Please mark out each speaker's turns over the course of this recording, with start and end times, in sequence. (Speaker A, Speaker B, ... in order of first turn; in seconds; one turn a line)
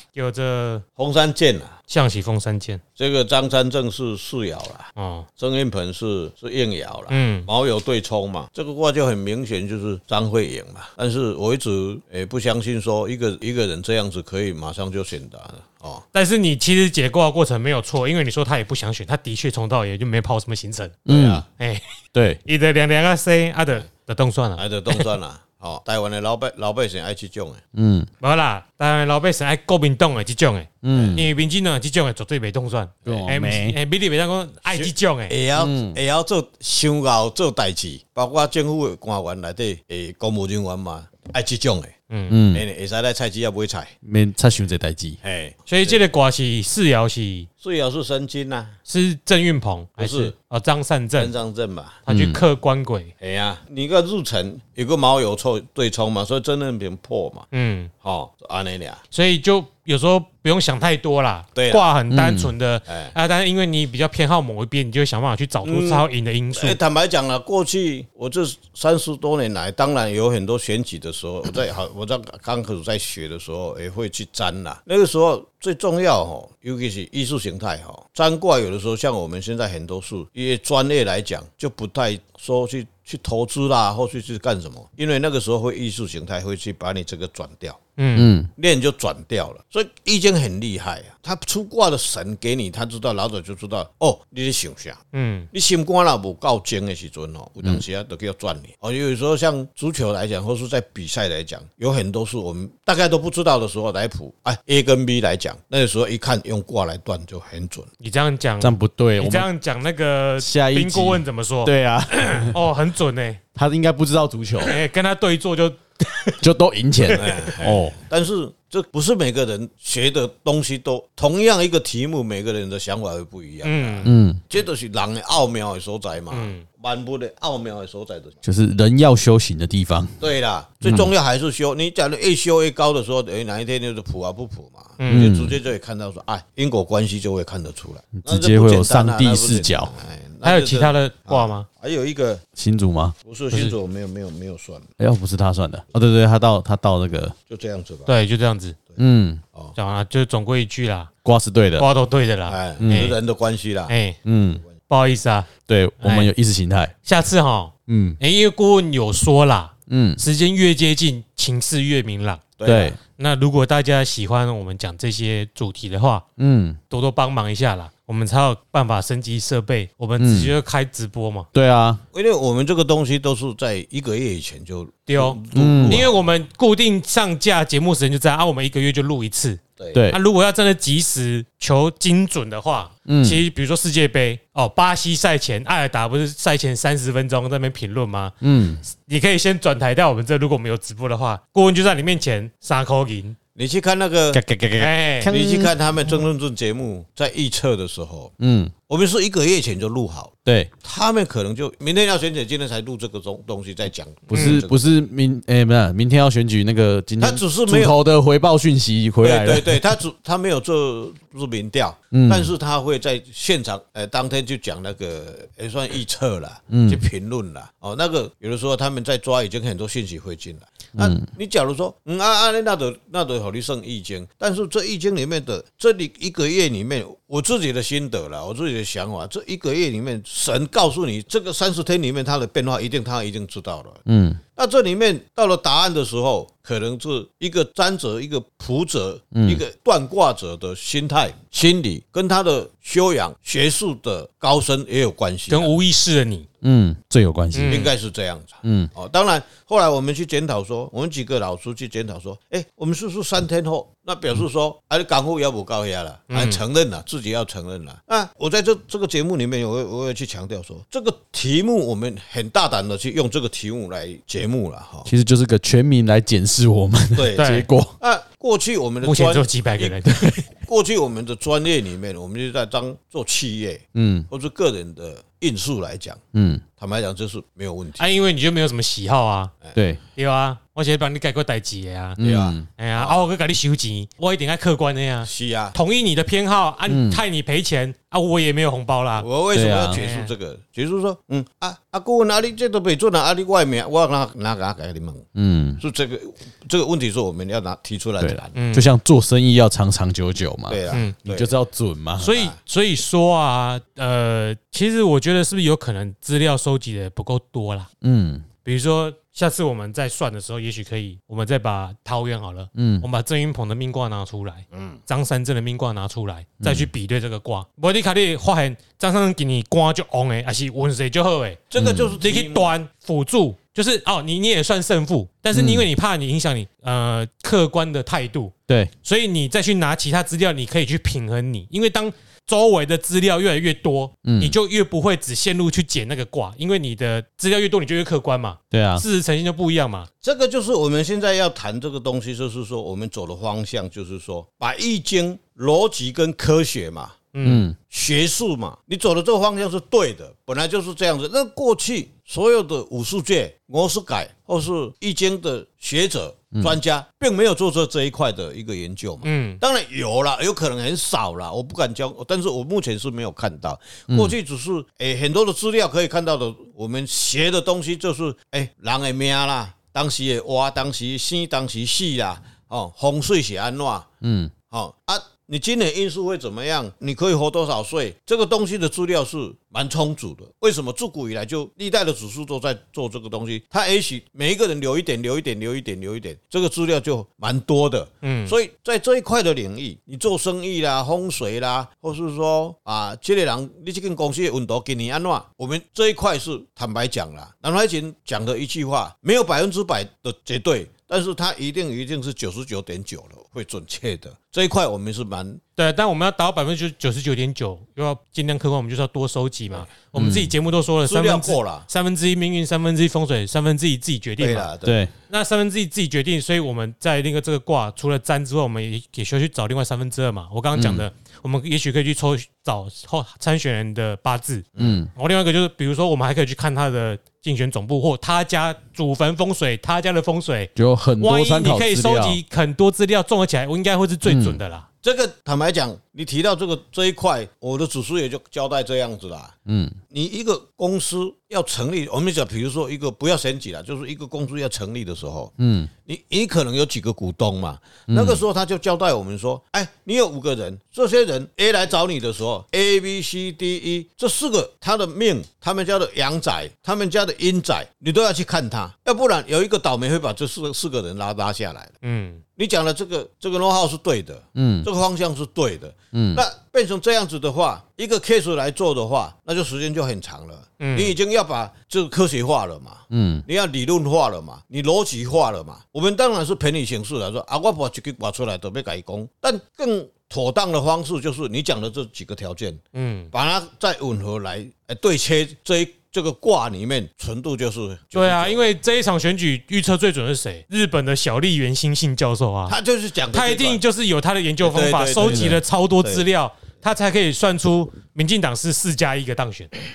Speaker A: 0.1-0.8
Speaker B: 1.0-1.8
Speaker A: 1.9-2.8
Speaker B: 3.0-16.0
Speaker A: 5.0-5.2
Speaker A: 7.1-7.5
Speaker A: 16.1-21.0
Speaker C: 21.1-21.4
Speaker B: 21.1-21.4
Speaker A: 21.6-25.1
Speaker C: 22.1-22.4
Speaker B: 24.6-27.6
Speaker C: 27.7-28.1
Speaker A: 28.2-35.3
Speaker C: 30.8-31.3
Speaker B: 30.9-31.3
Speaker B: 33.0-33.3
Speaker C: 33.0-33.8
Speaker B: 34.7-41.9
Speaker C: 35.5-36.0
Speaker A: 42.1-42.4
Speaker C: 42.3-42.6
Speaker B: 42.5-43.9
Speaker C: 44.0-45.2
Speaker B: 45.2-46.0
Speaker A: 45.7-47.5
Speaker B: 47.6-48.8
Speaker A: 48.9-51.3
Speaker B: 50.0-50.3
Speaker B: 51.2-52.0
Speaker A: 52.0-53.1
Speaker C: 52.1-52.4
Speaker B: 53.2-57.5
Speaker A: 57.5-57.9
Speaker B: 58.0-59.0
Speaker A: 59.1-66.8
Speaker B: 61.5-61.9
Speaker C: 62.1-62.5
Speaker B: 62.9-63.1
Speaker B: 65.6-87.8
Speaker A: 88.0-88.3
Speaker C: 88.1-88.5
Speaker B: 88.5-95.0
Speaker A: 95.1-95.5
Speaker B: 95.5-107.9
Speaker A: 108.0-113.4
Speaker C: 108.6-109.5
Speaker C: 110.4-112.5
Speaker C: 113.5-114.8
Speaker A: 114.6-116.4
Speaker C: 116.4-118.0
Speaker A: 117.0-117.4
Speaker B: 117.2-128.4
Speaker A: 123.6-124.1
Speaker C: 124.0-124.4
Speaker A: 126.3-126.6
Speaker C: 128.4-130.2
Speaker B: 130.2-142.4
Speaker C: 130.8-131.1
Speaker A: 135.0-135.3
Speaker C: 135.1-135.6
Speaker C: 138.2-139.9
Speaker A: 140.4-141.7
Speaker C: 142.6-143.7
Speaker B: 143.2-144.9
Speaker C: 145.0-147.3
Speaker B: 147.5-148.1
Speaker A: 148.1-148.8
Speaker C: 149.0-149.4
Speaker A: 149.8-151.1
Speaker C: 151.2-151.9
Speaker A: 151.8-153.2
Speaker B: 152.5-153.9
Speaker C: 152.8-153.1
Speaker A: 153.9-154.2
Speaker C: 154.2-154.6
Speaker A: 154.9-156.3
Speaker C: 155.7-156.9
Speaker A: 157.0-162.5
Speaker C: 157.9-158.2
Speaker C: 159.9-160.2
Speaker B: 162.6-162.9
Speaker C: 162.7-163.0
Speaker A: 163.2-166.2
Speaker C: 166.4-166.8
Speaker A: 166.9-171.5
Speaker C: 170.2-170.5
Speaker C: 171.5-172.0
Speaker B: 172.1-176.1
Speaker A: 175.1-193.3
Speaker C: 175.5-176.0
Speaker B: 179.8-180.0
Speaker C: 179.9-180.2
Speaker C: 183.1-183.4
Speaker C: 188.4-188.8
Speaker B: 193.6-194.4
Speaker C: 194.3-195.7
Speaker A: 194.8-195.3
Speaker B: 195.3-198.3
Speaker C: 198.4-198.7
Speaker B: 198.9-204.8
Speaker C: 200.4-200.7
Speaker C: 204.3-209.9
Speaker A: 204.3-204.6
Speaker B: 207.2-208.0
Speaker B: 209.2-234.0
Speaker C: 212.1-212.5
Speaker C: 216.7-217.0
Speaker C: 221.0-221.2
Speaker C: 234.1-234.4
Speaker B: 234.6-245.7
Speaker C: 239.3-239.6
Speaker A: 245.5-246.5
Speaker C: 246.6-247.9
Speaker A: 247.5-247.9
Speaker B: 247.7-265.1
Speaker C: 248.6-248.9
Speaker A: 256.3-256.6
Speaker C: 265.1-267.9
Speaker B: 267.1-269.9
Speaker A: 267.4-267.7
Speaker A: 269.0-270.4
Speaker C: 270.1-270.4
Speaker B: 270.5-276.2
Speaker C: 273.9-274.3
Speaker C: 276.3-276.6
Speaker B: 276.8-278.1
Speaker A: 278.0-279.5
Speaker C: 279.7-280.0
Speaker A: 280.1-282.2
Speaker C: 282.2-282.6
Speaker B: 282.2-283.2
Speaker A: 282.8-289.3
Speaker B: 285.2-285.8
Speaker C: 286.9-287.2
Speaker B: 289.2-295.2
Speaker C: 289.5-290.0
Speaker A: 289.9-290.3
Speaker C: 295.3-295.8
Speaker B: 295.8-298.6
Speaker C: 298.2-302.3
Speaker A: 298.5-298.9
Speaker B: 300.7-301.5
Speaker A: 302.2-307.9
Speaker B: 302.2-302.6
Speaker C: 308.0-308.4
Speaker A: 308.6-321.6
Speaker C: 312.7-313.1
Speaker B: 314.7-315.0
Speaker C: 316.6-316.9
Speaker B: 321.7-322.7
Speaker C: 321.8-322.2
Speaker A: 322.2-340.1
Speaker C: 325.5-325.9
Speaker C: 334.2-334.6
Speaker C: 338.7-339.0
Speaker B: 340.2-347.2
Speaker A: 347.3-347.6
Speaker C: 347.4-347.8
Speaker B: 347.8-374.1
Speaker A: 359.2-359.6
Speaker C: 364.1-364.4
Speaker C: 374.2-374.5
Speaker B: 374.7-405.6
Speaker A: 388.2-388.5
Speaker A: 405.8-414.7
Speaker C: 410.1-410.5
Speaker B: 411.1-411.9
Speaker B: 414.4-415.0
Speaker C: 414.8-415.1
Speaker A: 415.3-434.9
Speaker C: 420.7-421.0
Speaker B: 424.8-425.0
Speaker C: 424.8-425.1
Speaker C: 430.8-432.4
Speaker C: 434.2-434.6
Speaker B: 435.0-439.5
Speaker C: 439.6-440.0
Speaker B: 440.1-445.5
Speaker C: 445.6-445.9
Speaker B: 446.1-461.9
Speaker C: 448.1-448.4
Speaker A: 462.0-462.4
Speaker B: 462.6-488.6
Speaker C: 464.6-464.9
Speaker C: 466.1-466.4
Speaker A: 470.8-471.1
Speaker C: 473.1-473.4
Speaker A: 482.9-483.3
Speaker A: 488.1-492.8
Speaker B: 492.7-493.8
Speaker A: 493.3-499.7
Speaker B: 494.6-496.2
Speaker C: 495.3-495.6